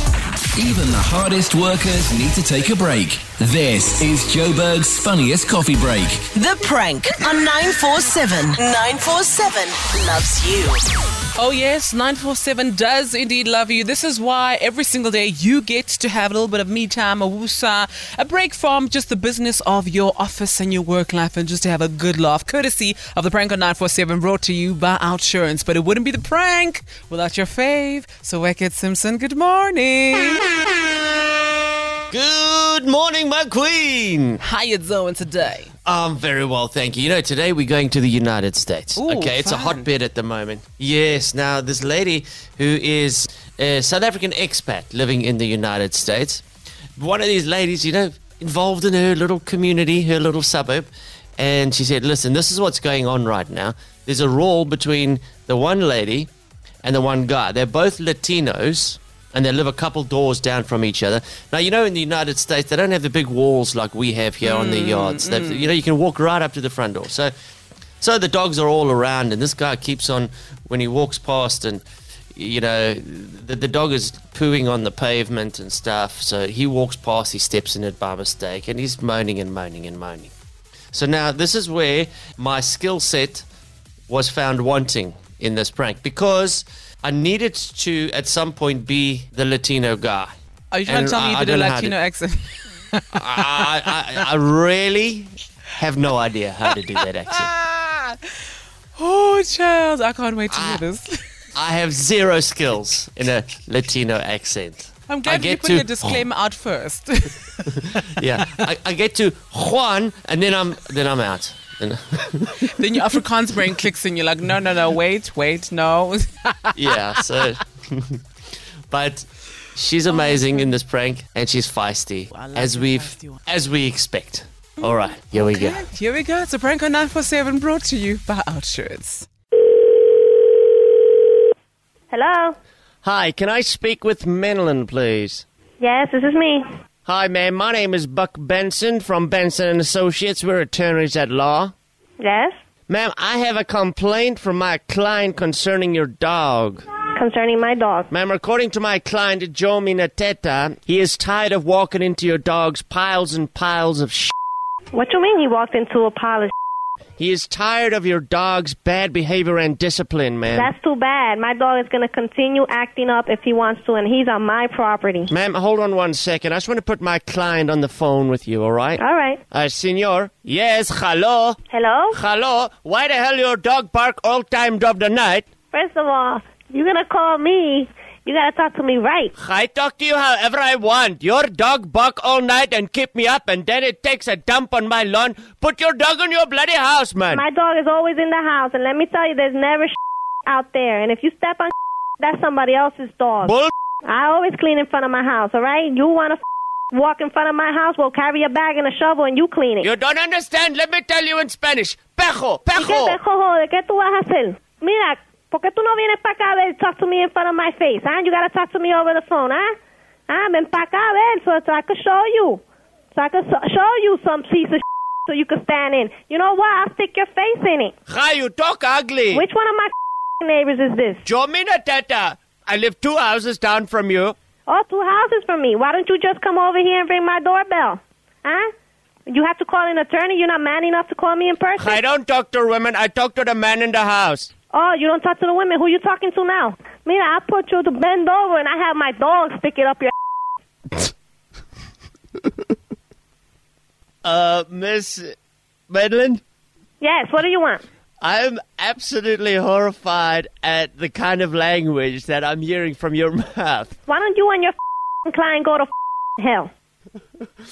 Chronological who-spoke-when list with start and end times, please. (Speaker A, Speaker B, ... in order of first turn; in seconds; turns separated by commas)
Speaker A: 0.5-6.3, Speaker B: 6.3-10.8, Speaker C: 11.3-30.6, Speaker D: 32.1-34.4, Speaker C: 34.4-35.7, Speaker D: 35.9-46.4, Speaker C: 39.0-39.9, Speaker D: 47.0-56.3, Speaker D: 56.8-67.3, Speaker C: 64.4-65.7, Speaker D: 68.0-71.8, Speaker D: 72.3-80.3, Speaker D: 80.9-83.5, Speaker D: 84.1-90.3, Speaker C: 90.7-93.7, Speaker D: 90.9-91.9, Speaker D: 93.1-97.5, Speaker C: 97.3-98.2, Speaker C: 99.0-101.2, Speaker D: 100.5-100.8, Speaker D: 101.5-106.2, Speaker C: 105.1-108.5, Speaker D: 107.8-112.7, Speaker C: 112.6-116.7, Speaker D: 116.7-118.2, Speaker D: 118.9-125.8, Speaker C: 120.1-120.7, Speaker C: 122.3-123.4, Speaker C: 125.5-129.3, Speaker E: 132.1-132.6, Speaker D: 133.0-135.4, Speaker E: 135.8-136.7, Speaker D: 137.0-141.7, Speaker E: 142.2-142.5, Speaker D: 142.9-146.8, Speaker E: 147.1-148.1, Speaker D: 148.1-154.3, Speaker E: 154.9-156.5, Speaker D: 157.2-160.7, Speaker E: 160.5-165.3, Speaker D: 165.3-171.6, Speaker E: 169.0-169.4, Speaker E: 171.7-172.2, Speaker D: 172.1-175.4, Speaker E: 175.7-179.3, Speaker D: 179.3-187.4, Speaker E: 187.3-193.5, Speaker D: 193.4-193.7, Speaker E: 194.0-196.4, Speaker E: 196.9-199.9, Speaker D: 199.8-203.2, Speaker E: 202.7-209.7, Speaker E: 210.3-212.6, Speaker E: 213.1-217.9, Speaker D: 218.1-219.4, Speaker E: 219.3-219.9, Speaker E: 220.4-221.2, Speaker D: 221.2-224.3, Speaker E: 224.7-228.7, Speaker E: 229.3-232.0, Speaker D: 231.8-234.5, Speaker E: 234.7-240.1, Speaker D: 244.2-245.3, Speaker D: 245.9-246.4, Speaker E: 247.0-247.8, Speaker D: 248.2-253.9, Speaker E: 254.1-254.7, Speaker E: 255.2-256.7